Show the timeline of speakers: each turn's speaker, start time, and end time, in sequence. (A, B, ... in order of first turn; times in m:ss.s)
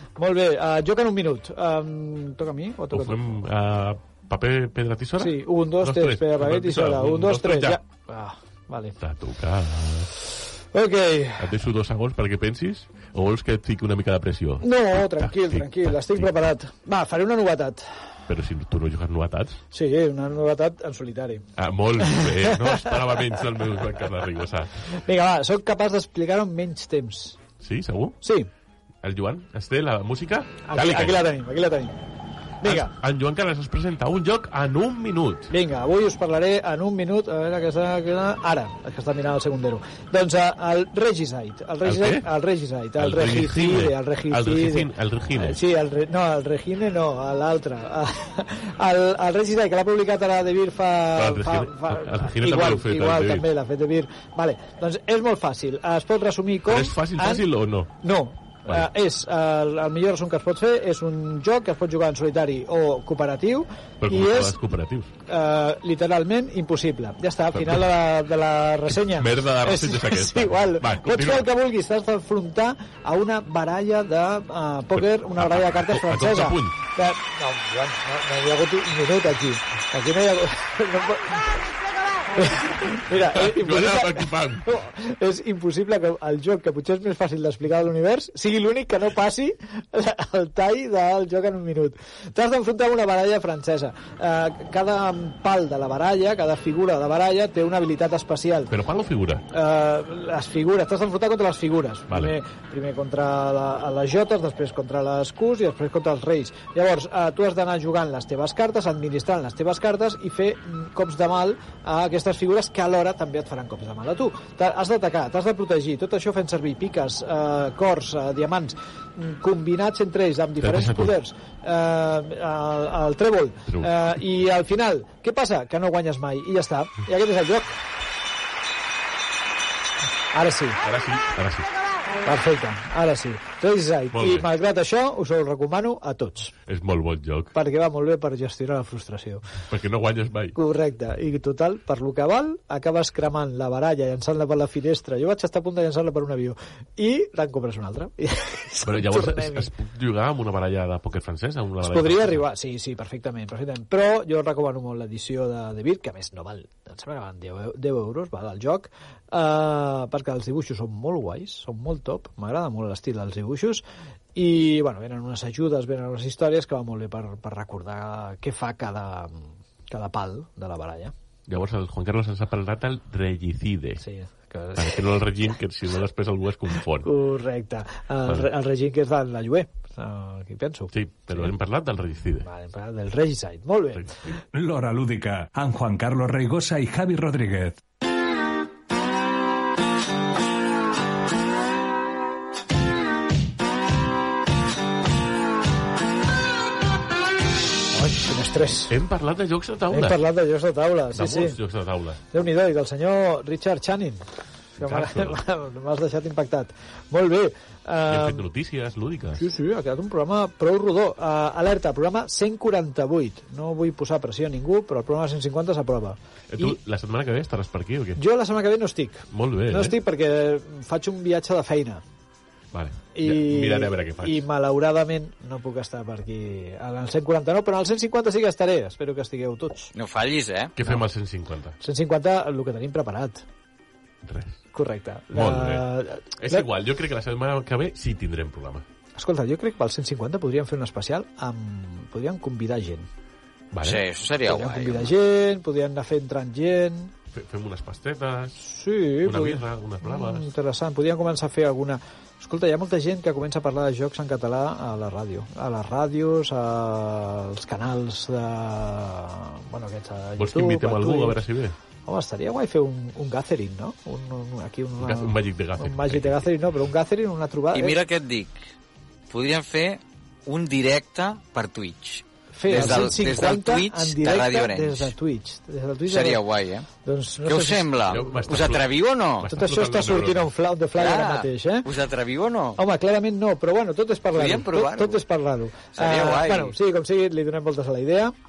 0:00.2-0:03.2 A
0:02.9-0:07.8 B
0:05.2-0:09.0 A
0:09.0-0:10.1 B
0:10.7-0:11.6 A
0:11.4-0:16.5 B
0:14.6-0:18.1 A
0:18.3-0:19.6 B
0:19.7-0:21.4 A
0:21.6-0:24.7 B
0:22.0-0:23.4 A
0:24.9-0:27.4 A
0:27.6-0:28.2 B
0:28.2-0:28.5 A
0:29.0-0:31.2 B
0:30.6-0:32.0 A
0:32.6-0:32.9 A
0:32.6-0:35.5 B
0:35.5-0:57.5 A
0:41.8-0:42.3 B
0:43.0-0:45.6 B
0:51.2-0:53.5 B
0:56.7-0:57.9 B
0:58.0-1:04.6 A
1:04.0-1:05.1 B
1:05.3-1:21.7 A
1:07.5-1:07.9 B
1:08.9-1:11.5 B
1:15.0-1:16.8 B
1:22.4-1:38.7 A
1:23.1-1:24.7 B
1:38.7-1:39.4 B
1:39.5-2:07.8 A
2:00.6-2:01.1 B
2:03.7-2:04.0 B
2:10.3-2:10.8 A
2:10.8-2:11.7 B
2:12.2-2:16.5 A
2:14.1-2:14.5 B
2:16.7-2:17.5 B
2:17.5-2:19.5 A
2:19.7-2:20.6 B
2:20.6-2:29.7 A
2:28.8-2:32.4 B
2:31.8-2:43.8 A
2:44.4-2:51.1 A
2:51.5-2:54.0 B
2:54.0-2:55.2 A
2:54.8-2:57.1 B
2:57.0-3:01.5 A
3:00.9-3:02.5 B
3:02.4-3:04.1 A
3:04.5-3:07.8 C
3:17.9-3:19.0 A
3:18.9-3:20.2 B
3:19.9-3:21.6 A
3:21.2-3:22.2 B
3:22.3-3:24.3 A
3:24.8-3:28.4 A
3:24.8-3:25.4 B
3:28.1-3:29.4 B
3:29.4-3:36.8 A
3:36.5-3:38.2 B
3:38.2-3:42.0 A
3:39.3-3:40.0 B
3:42.7-3:44.4 B
3:43.1-3:49.9 A
3:49.9-3:50.7 D
3:50.8-3:51.8 B
3:51.8-3:53.4 A
3:54.2-3:54.6 B
3:54.7-3:56.7 A
3:55.3-3:55.9 B
3:56.4-3:58.8 B
3:59.2-4:03.1 A
4:03.7-4:04.0 B
4:03.8-4:05.1 D
4:04.4-4:07.1 A
4:07.3-4:08.6 B
4:08.6-4:21.4 A
4:09.2-4:10.5 B
4:20.4-4:21.8 B
4:22.1-4:28.0 A
4:25.0-4:26.5 B
4:27.7-4:28.7 D
4:29.3-4:35.1 D
4:32.5-4:36.5 A
4:32.7-4:33.2 B
4:36.1-4:36.9 D
4:37.0-4:38.1 A
4:37.5-4:39.5 D
4:38.1-4:40.5 B
4:39.5-4:41.9 A
4:41.0-4:42.8 D
4:42.8-4:48.3 A
4:44.3-4:45.2 D
4:46.0-4:46.8 D